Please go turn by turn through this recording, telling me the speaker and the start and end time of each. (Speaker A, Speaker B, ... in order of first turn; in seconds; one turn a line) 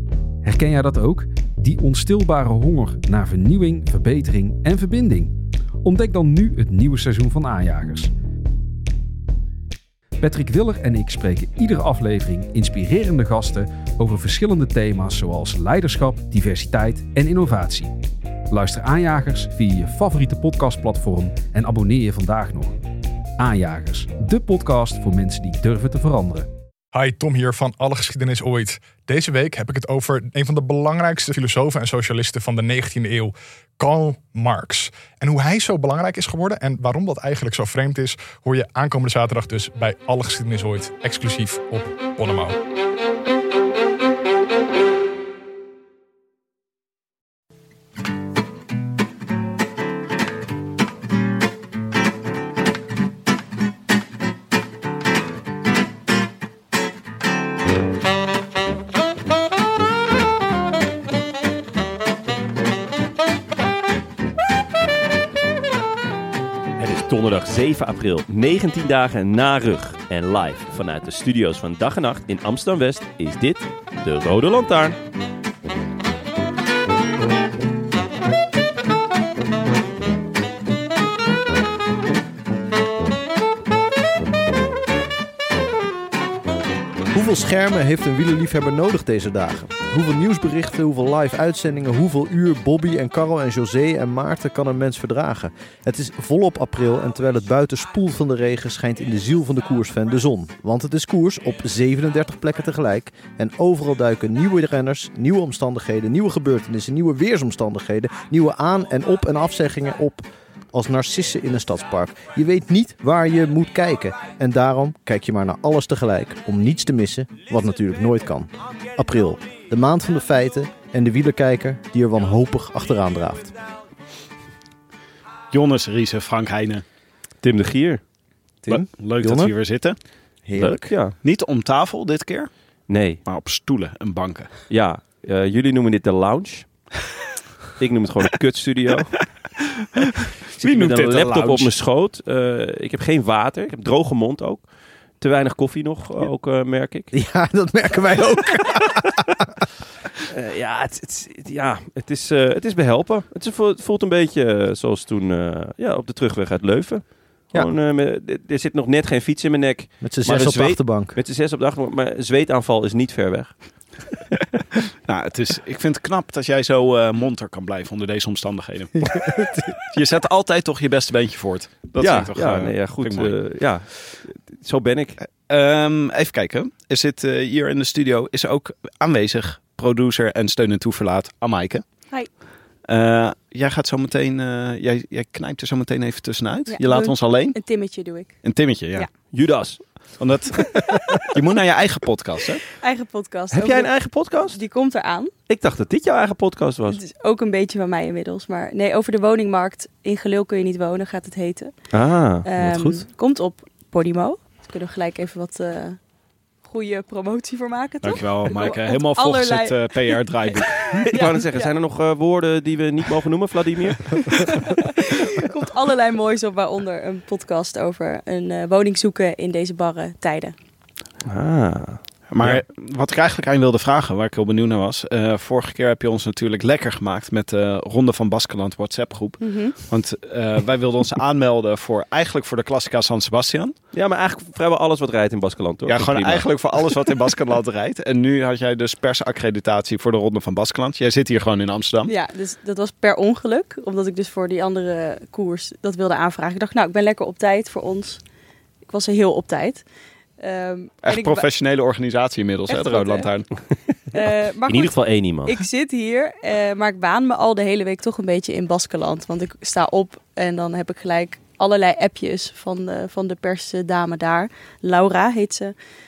Speaker A: 0.4-8.1
Speaker A: 10.2-18.0
Speaker A: 18.5-22.8
Speaker A: 23.4-26.5
Speaker B: 26.9-42.6
Speaker C: 66.8-75.0
Speaker D: 87.1-123.5
Speaker E: 125.5-126.8
Speaker C: 127.4-128.0
Speaker D: 128.6-129.5
Speaker E: 128.7-130.0
Speaker D: 130.4-130.9
Speaker C: 130.5-131.2
Speaker E: 131.2-132.5
Speaker C: 132.9-133.2
Speaker E: 133.2-134.5
Speaker C: 134.7-136.9
Speaker C: 137.8-139.2
Speaker E: 140.6-141.7
Speaker C: 140.6-144.7
Speaker C: 145.2-147.1
Speaker D: 147.1-149.6
Speaker C: 150.3-164.0
Speaker D: 160.0-161.1
Speaker E: 165.1-173.4
Speaker D: 169.1-169.7
Speaker C: 172.0-175.2
Speaker E: 175.4-187.6
Speaker F: 186.7-189.1
Speaker E: 188.4-189.1
Speaker C: 189.3-190.2
Speaker E: 190.1-190.8
Speaker E: 191.3-192.6
Speaker F: 192.8-195.3
Speaker C: 193.5-194.6
Speaker C: 195.5-197.0
Speaker F: 196.9-201.7
Speaker C: 201.9-203.0
Speaker F: 202.4-206.0
Speaker F: 206.6-211.7
Speaker E: 208.0-211.0
Speaker C: 211.1-214.3
Speaker F: 214.6-220.5
Speaker C: 221.2-222.6
Speaker E: 222.3-233.7
Speaker F: 229.4-229.8
Speaker C: 233.9-236.5
Speaker E: 235.8-242.1
Speaker F: 242.1-248.2
Speaker F: 248.9-249.8
Speaker F: 250.4-251.4
Speaker E: 251.0-253.5
Speaker F: 252.7-265.7
Speaker C: 254.7-255.6